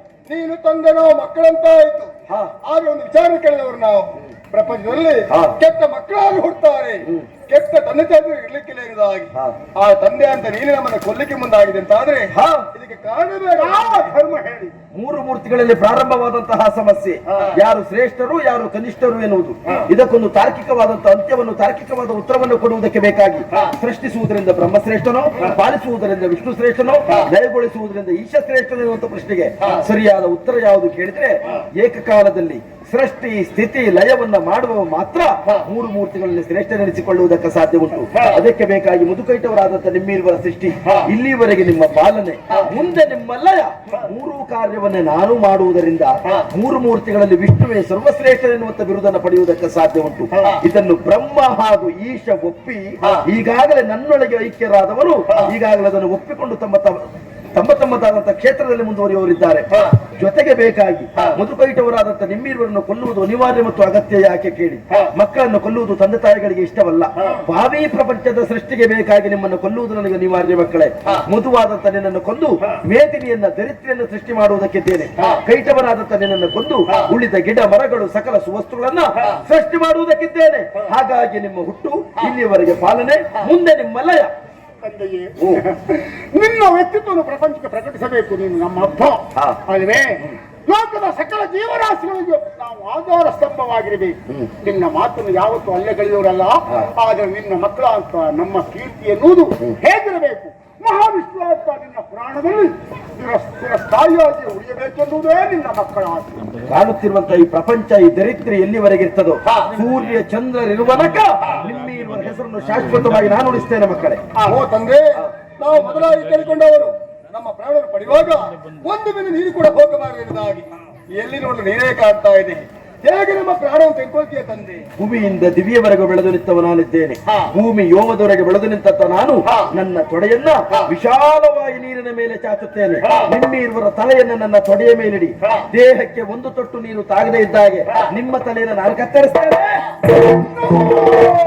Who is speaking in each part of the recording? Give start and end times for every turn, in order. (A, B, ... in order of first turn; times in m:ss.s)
0:00.2-0:14.0 A
0:02.3-0:02.5 B
0:05.3-0:05.6 B
0:12.3-0:12.7 B
0:13.6-0:14.7 C
0:14.9-1:24.3 B
1:24.8-1:46.6 C
1:29.3-1:29.6 B
1:46.6-1:54.2 B
1:54.4-1:55.1 A
1:55.6-2:04.9 A
2:04.9-2:19.9 B
2:20.8-2:21.1 A